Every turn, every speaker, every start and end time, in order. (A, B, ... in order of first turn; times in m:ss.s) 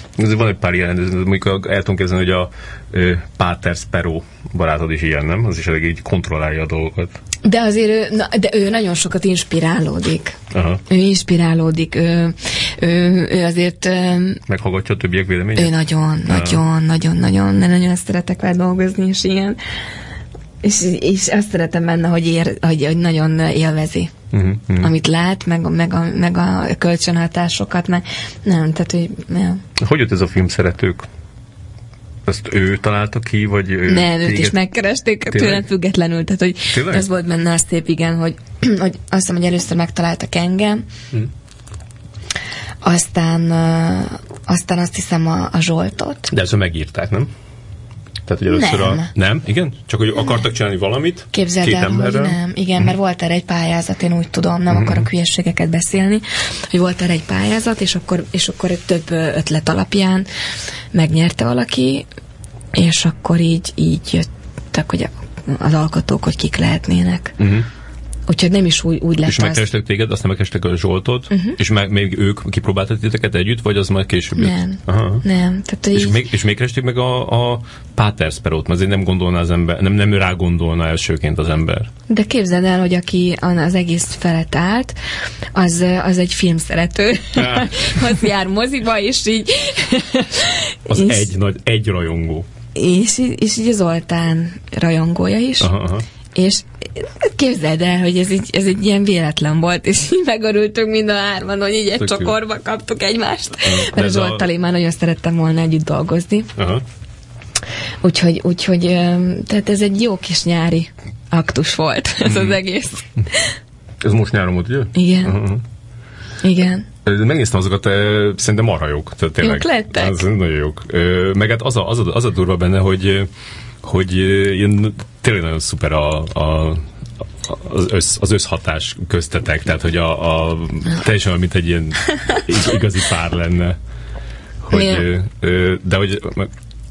0:00.2-0:07.2 A
0:07.4-0:14.4 B
0:10.5-0:10.8 A
0:14.5-0:16.6 A
0:15.6-0:19.6 B
0:20.6-0:24.1 B
0:24.3-0:24.9 A
0:24.8-0:29.6 B
0:29.8-0:31.1 A
0:32.3-0:34.6 A
0:33.9-0:40.9 B
0:35.3-0:35.6 A
0:36.7-0:37.1 A
0:42.8-0:46.3 B
0:46.3-0:47.3 A
0:48.3-0:52.4 A
0:48.5-0:49.1 B
0:51.3-1:00.3 B
0:54.7-0:55.1 A
1:00.9-1:02.1 B
1:02.7-1:07.4 B
1:07.4-1:07.7 A
1:08.3-1:09.6 B
1:09.2-1:15.2 A
1:11.3-1:11.6 B
1:14.4-1:16.2 B
1:15.9-1:21.9 A
1:22.1-1:25.0 B
1:25.5-1:31.3 B
1:27.4-1:28.2 A
1:30.9-1:32.5 A
1:32.8-1:35.7 B
1:35.6-1:36.0 A
1:36.4-1:46.5 B
1:42.0-1:42.4 A
1:43.6-1:44.5 A
1:46.6-1:46.8 A
1:48.0-1:53.6 B
1:52.2-1:52.6 A
1:54.0-1:55.6 A
1:54.9-1:55.4 B
1:56.4-1:56.9 B
1:57.0-2:03.3 A
1:59.4-2:00.2 B
2:03.8-2:06.8 A
2:07.4-2:13.8 A
2:14.6-2:16.5 A
2:14.7-2:15.1 B